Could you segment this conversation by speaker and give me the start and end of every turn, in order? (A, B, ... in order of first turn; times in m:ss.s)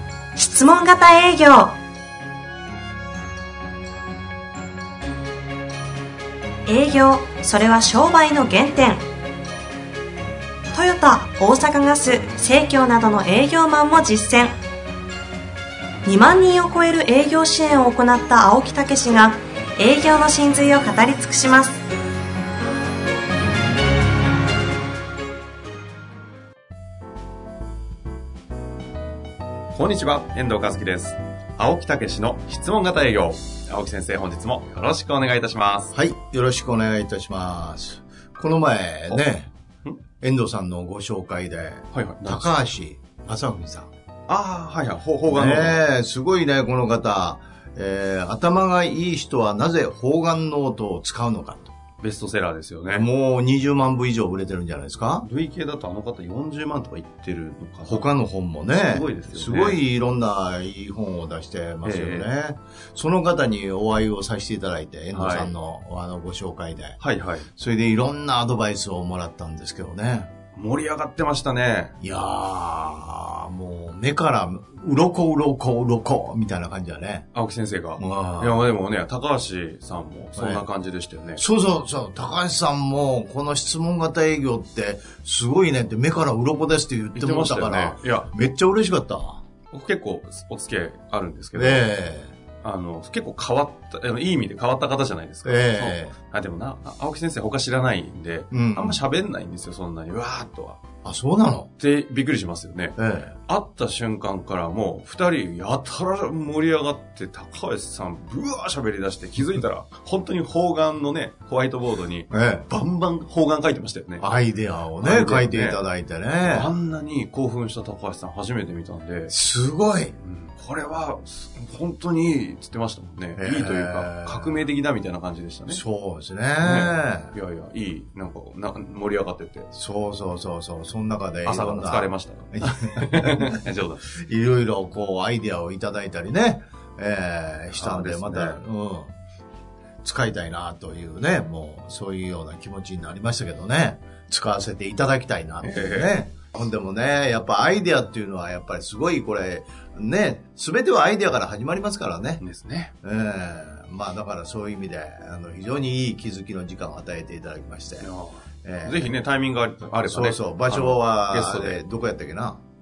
0:00.4-0:01.7 A
0:06.7-0:09.0 A
0:10.7-0:14.6 A
0:16.0-0:21.8 A
0:29.7-0:35.9 B
0:35.9-0:39.5 C
0:40.2-0:43.9 C
0:41.9-0:42.5 B
0:44.3-0:45.8 B
0:45.2-0:51.7 C
0:52.0-0:53.1 B
0:52.9-0:55.3 C
0:55.2-0:58.1 B
0:57.9-1:07.0 C
0:58.9-0:59.8 B
1:01.8-1:02.3 B
1:05.1-1:05.5 B
1:07.0-1:07.5 B
1:07.6-1:10.3 C
1:10.5-1:12.0 B
1:12.0-1:17.3 C
1:17.3-1:21.4 B
1:18.0-1:18.7 C
1:20.4-1:20.6 C
1:21.4-1:29.4 C
1:27.2-1:28.3 B
1:29.7-1:31.9 B
1:31.6-1:32.3 C
1:32.6-1:40.8 B
1:35.4-1:36.2 C
1:38.5-1:39.0 C
1:41.0-1:41.7 C
1:41.8-1:54.2 B
1:43.0-1:43.4 C
1:52.3-1:52.7 C
1:54.2-1:56.7 C
1:55.0-1:55.8 B
1:56.4-1:59.4 B
1:59.3-2:00.2 C
2:00.2-2:05.8 B
2:03.4-2:04.7 C
2:05.7-2:07.4 C
2:06.6-2:09.7 B
2:09.7-2:19.1 C
2:11.4-2:14.1 B
2:17.7-2:18.6 B
2:20.0-2:32.4 C
2:25.6-2:26.2 B
2:32.4-2:32.9 B
2:33.0-2:38.1 C
2:38.0-2:41.8 B
2:38.6-2:39.2 C
2:40.0-2:42.6 C